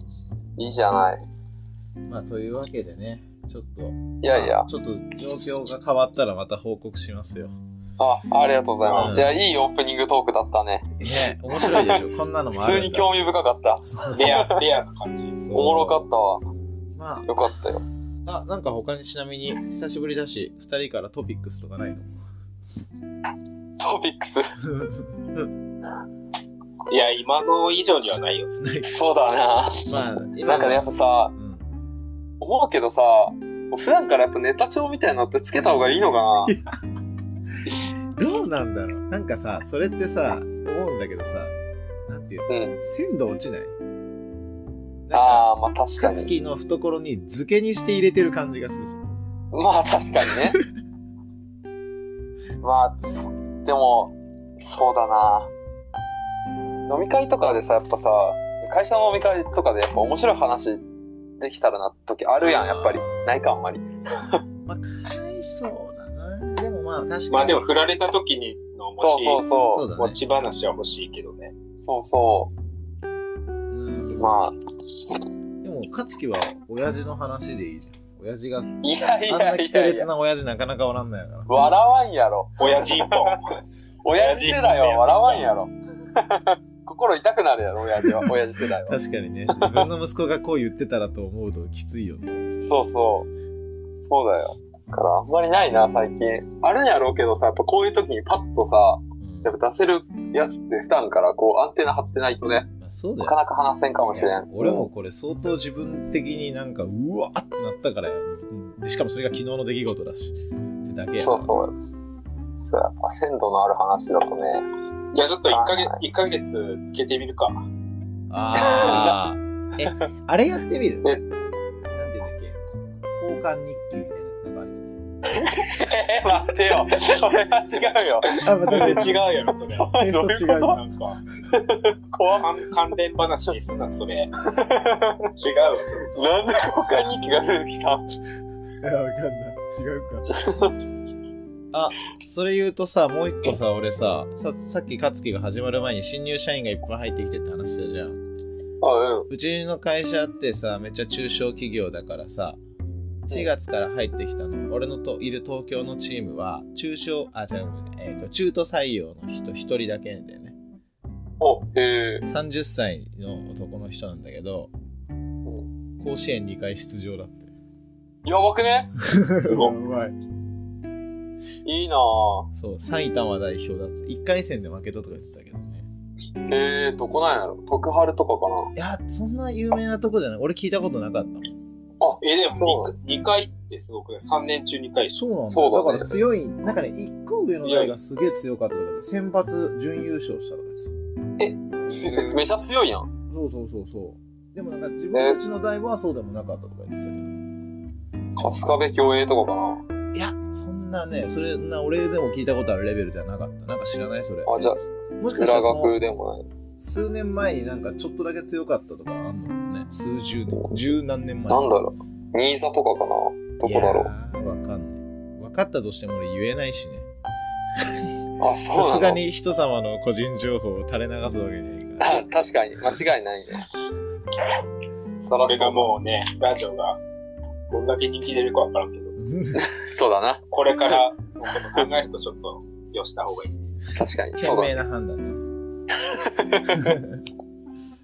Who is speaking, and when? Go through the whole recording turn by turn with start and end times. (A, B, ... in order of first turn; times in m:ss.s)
0:00.6-0:01.2 A
0:02.0-0:07.5 B
0:04.2-0:04.7 A
0:08.0-0:12.0 A
0:08.8-0:09.2 C
0:09.0-0:09.4 B
0:11.0-0:13.1 B
0:12.6-0:14.6 A
0:13.8-0:14.4 B
0:14.1-0:15.4 C
0:15.4-0:16.0 B
0:15.5-0:16.4 A
0:17.0-0:17.3 B
0:17.2-0:17.8 A
0:18.2-0:22.1 B
0:23.8-0:24.5 A
0:24.6-0:25.5 B
0:26.9-0:28.5 C
0:28.6-0:28.9 B
0:28.8-0:29.9 A
0:29.8-0:31.7 B
0:30.4-0:31.3 A
0:32.4-0:36.5 A
0:36.4-0:36.8 B
0:38.2-0:41.5 B
0:42.1-0:43.8 B
0:42.5-0:42.8 A
0:45.0-0:45.5 B
0:45.1-0:46.3 A
0:46.0-0:49.1 B
0:49.5-0:50.6 A
0:50.3-0:50.6 B
0:52.6-0:55.5 A
0:56.8-1:00.8 A
1:01.4-1:04.4 A
1:02.5-1:03.3 B
1:04.6-1:07.7 B
1:07.3-1:09.4 C
1:09.0-1:09.9 A
1:09.7-1:10.2 B
1:10.0-1:11.5 C
1:11.8-1:12.5 A
1:13.7-1:14.4 B
1:14.1-1:14.6 A
1:15.6-1:21.5 B
1:18.8-1:20.1 A
1:21.5-1:23.3 A
1:22.6-1:23.5 C
1:24.0-1:29.0 A
1:24.1-1:25.5 C
1:28.9-1:32.6 B
1:29.5-1:29.8 A
1:32.6-1:33.3 A
1:34.0-1:42.7 A
1:39.2-1:39.6 B
1:42.8-1:43.4 B
1:43.2-1:44.9 A
1:44.1-1:51.5 B
1:51.2-1:51.8 A
1:52.6-1:54.6 A
1:55.1-1:57.6 C
1:55.5-1:56.0 A
1:58.3-2:01.2 B
1:58.6-1:59.2 A
1:59.8-2:00.1 A
2:01.9-2:05.0 B
2:05.3-2:08.9 A
2:08.3-2:09.9 C
2:08.4-2:09.2 B
2:09.8-2:10.8 A
2:09.9-2:10.8 B
2:10.6-2:11.2 C
2:11.5-2:12.5 A
2:12.4-2:14.3 C
2:14.4-2:15.2 A
2:15.4-2:16.2 C
2:16.1-2:18.1 A
2:18.8-2:20.3 B
2:20.3-2:20.7 A
2:21.7-2:28.2 B
2:28.8-2:29.3 A
2:29.3-2:32.6 B
2:33.3-2:40.6 B
2:41.4-2:42.2 A
2:42.2-2:44.7 B
2:46.0-2:47.5 B
2:48.2-2:48.9 A
2:49.0-2:50.2 B
2:49.4-2:49.7 C
2:51.6-2:52.5 A
2:52.6-2:55.9 B
2:56.5-2:58.7 A
2:58.8-3:01.5 B
3:02.0-3:02.9 A
3:02.2-3:05.2 C
3:05.1-3:10.9 B
3:05.5-3:06.1 A
3:07.6-3:07.9 A
3:11.4-3:13.1 A
3:12.1-3:12.4 C
3:13.3-3:17.3 B
3:15.1-3:15.4 A
3:18.4-3:19.8 A
3:20.1-3:26.0 B
3:24.4-3:24.8 A
3:25.4-3:26.4 A
3:26.8-3:31.7 B
3:31.5-3:34.1 A
3:33.6-3:37.1 B
3:37.8-3:38.1 B
3:38.4-3:39.2 A
3:38.7-3:42.2 B
3:42.0-3:43.6 A
3:45.2-3:45.9 A
3:45.4-3:47.0 C
3:47.7-3:49.1 C
3:49.2-3:49.7 B
3:49.6-3:50.9 A
3:50.5-3:53.6 C
3:51.5-3:51.8 A
3:53.9-3:54.8 A
3:54.4-3:55.4 B
3:55.9-3:57.0 A
3:56.7-3:57.2 B